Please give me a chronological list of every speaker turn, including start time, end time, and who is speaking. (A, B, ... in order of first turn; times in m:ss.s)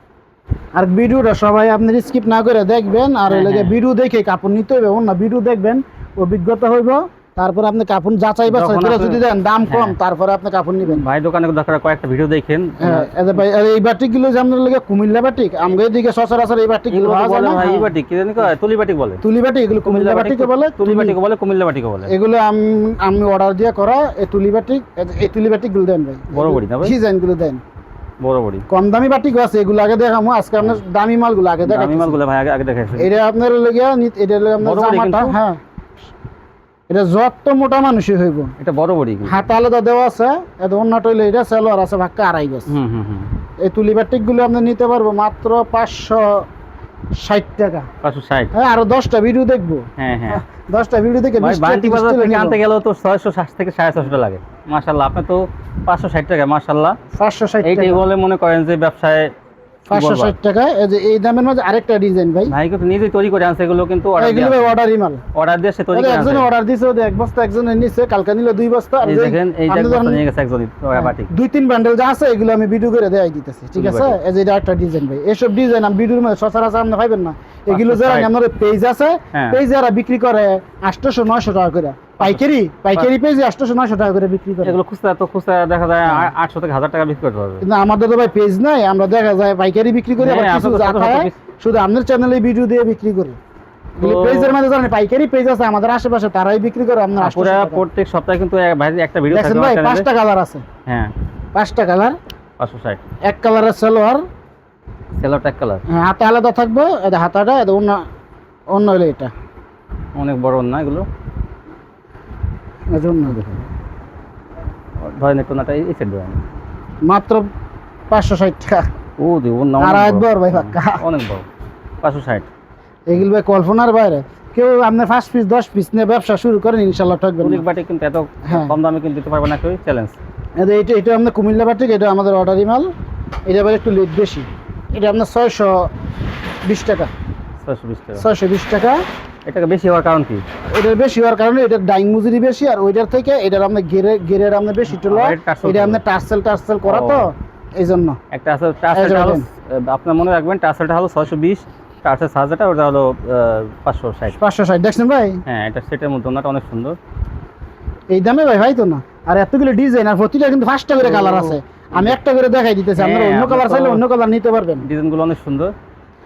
0:00.8-0:11.0 A
0:03.3-0:03.8 B
0:08.4-0:10.0 B
0:10.8-0:13.4 B
0:12.8-0:17.9 A
0:16.9-0:19.2 B
0:19.2-0:21.2 A
0:19.8-0:22.1 B
0:22.1-0:27.6 A
0:26.3-0:27.0 B
0:28.2-0:28.7 B
0:28.7-0:32.2 A
0:30.6-0:30.8 B
0:31.6-0:33.1 B
0:33.0-0:35.6 A
0:34.6-0:35.4 B
0:36.9-0:38.5 A
0:38.6-0:39.4 B
0:39.2-0:42.7 A
0:42.7-0:43.4 B
0:43.6-0:46.5 A
0:47.2-0:47.9 A
0:48.0-0:48.6 B
0:48.5-0:52.6 A
0:50.0-0:50.4 B
0:51.4-0:57.0 B
0:57.2-0:58.0 A
0:57.6-0:59.3 B
0:59.9-1:02.5 A
0:59.9-1:00.4 B
1:02.5-1:04.8 B
1:04.2-1:05.2 A
1:05.3-1:06.5 B
1:05.9-1:10.2 A
1:09.0-1:11.3 B
1:11.0-1:24.8 A
1:13.7-1:14.2 B
1:17.7-1:18.3 B
1:19.3-1:19.6 B
1:22.2-1:22.4 B
1:24.6-1:27.6 B
1:26.0-1:26.3 A
1:27.6-1:33.4 A
1:30.2-1:31.4 B
1:34.0-1:37.8 A
1:34.0-1:34.6 B
1:37.2-1:40.1 B
1:39.3-1:40.6 A
1:40.9-1:41.1 B
1:41.5-1:42.2 A
1:42.6-1:43.0 B
1:43.2-1:44.2 A
1:45.2-1:45.8 B
1:45.9-1:48.0 A
1:48.7-1:49.3 A
1:50.2-1:51.1 B
1:52.9-1:53.4 A
1:53.3-1:53.6 B
1:55.0-1:56.4 B
1:57.0-1:57.5 A
1:58.1-1:58.9 A
1:59.2-2:01.5 B
1:59.8-2:01.0 A
2:02.0-2:02.5 B
2:03.1-2:07.6 A
2:07.4-2:10.2 B
2:08.5-2:08.7 A
2:10.6-2:12.9 A
2:13.5-2:15.9 A
2:16.6-2:17.1 A
2:17.6-2:18.3 B
2:18.2-2:19.0 A
2:19.5-2:20.4 B
2:20.7-2:28.2 A
2:25.1-2:26.0 B
2:26.8-2:27.3 B
2:28.3-2:34.4 B
2:28.9-2:29.4 A
2:34.3-2:35.4 A
2:35.5-2:37.0 B
2:38.1-2:44.9 A
2:41.0-2:42.2 B
2:43.0-2:44.0 B
2:44.8-2:45.7 B